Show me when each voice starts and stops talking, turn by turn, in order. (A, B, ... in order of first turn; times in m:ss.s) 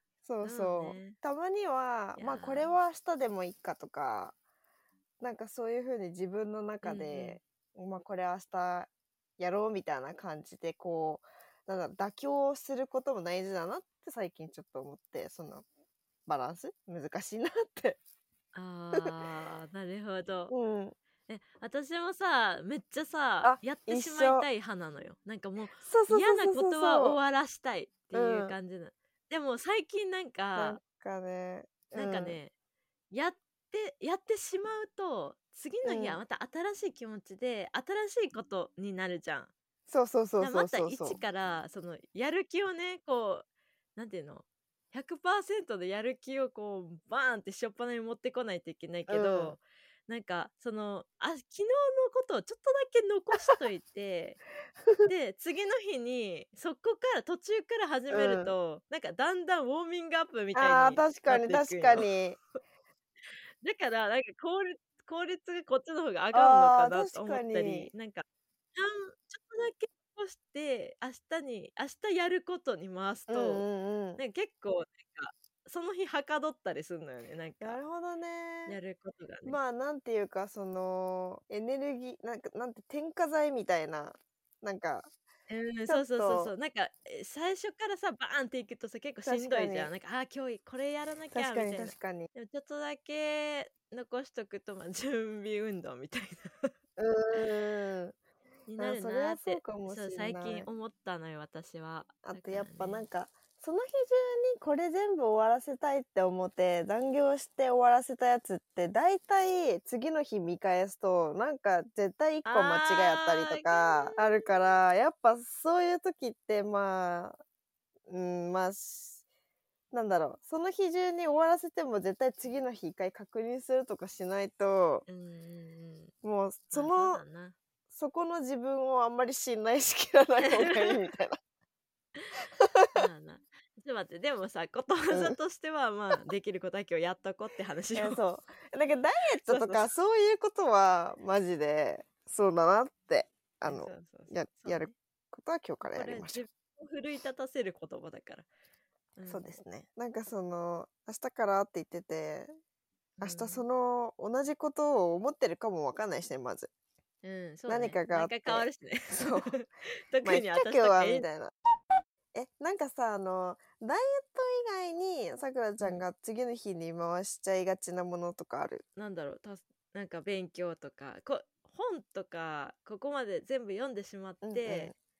0:00.2-0:04.3 A
0:00.4-0:01.2 B
0:02.2-0:02.7 B
0:05.2-0:15.6 A
0:06.8-0:07.4 B
0:16.3-0:18.0 A
0:18.5-0:20.5 B
0:20.5-0:21.0 A
0:21.3-0:30.8 B
0:23.4-0:24.5 A
0:25.8-0:27.2 A
0:28.1-0:28.6 A
0:30.6-0:32.4 A
0:31.9-0:32.5 B
0:33.1-0:39.5 B
0:35.8-0:36.2 A
0:39.9-0:41.2 A
0:40.4-0:43.4 B
0:44.0-0:54.4 B
0:49.1-0:49.6 A
0:55.1-1:02.1 B
0:58.1-0:58.6 A
1:00.6-1:02.4 A
1:03.6-1:13.6 B
1:06.3-1:07.9 A
1:13.3-1:14.2 A
1:14.2-1:17.8 B
1:17.6-1:18.8 A
1:18.7-1:19.6 B
1:19.4-1:25.1 A
1:25.5-1:36.7 B
1:25.9-1:26.5 A
1:29.2-1:29.9 A
1:31.3-1:32.3 A
1:37.0-1:38.2 A
1:38.7-1:43.1 B
1:38.8-1:40.7 A
1:42.2-1:57.4 A
1:52.4-1:54.6 B
1:58.1-1:59.2 A
1:59.9-2:05.1 A
2:05.1-2:06.1 B
2:06.2-2:07.2 A
2:06.7-2:07.6 B
2:07.9-2:11.4 A
2:10.6-2:11.0 B
2:12.6-2:13.1 A
2:12.9-2:18.2 B
2:15.1-2:15.4 A
2:17.9-2:26.4 A
2:19.5-2:19.9 B
2:23.6-2:24.9 B
2:25.8-2:28.5 B
2:29.2-2:29.5 B
2:29.3-2:32.5 A
2:33.2-2:33.6 B
2:33.2-2:36.7 A
2:37.2-2:41.2 B
2:37.7-2:39.6 A
2:40.2-2:41.5 A
2:42.3-2:48.8 A
2:49.0-2:54.9 B
2:54.4-2:54.9 A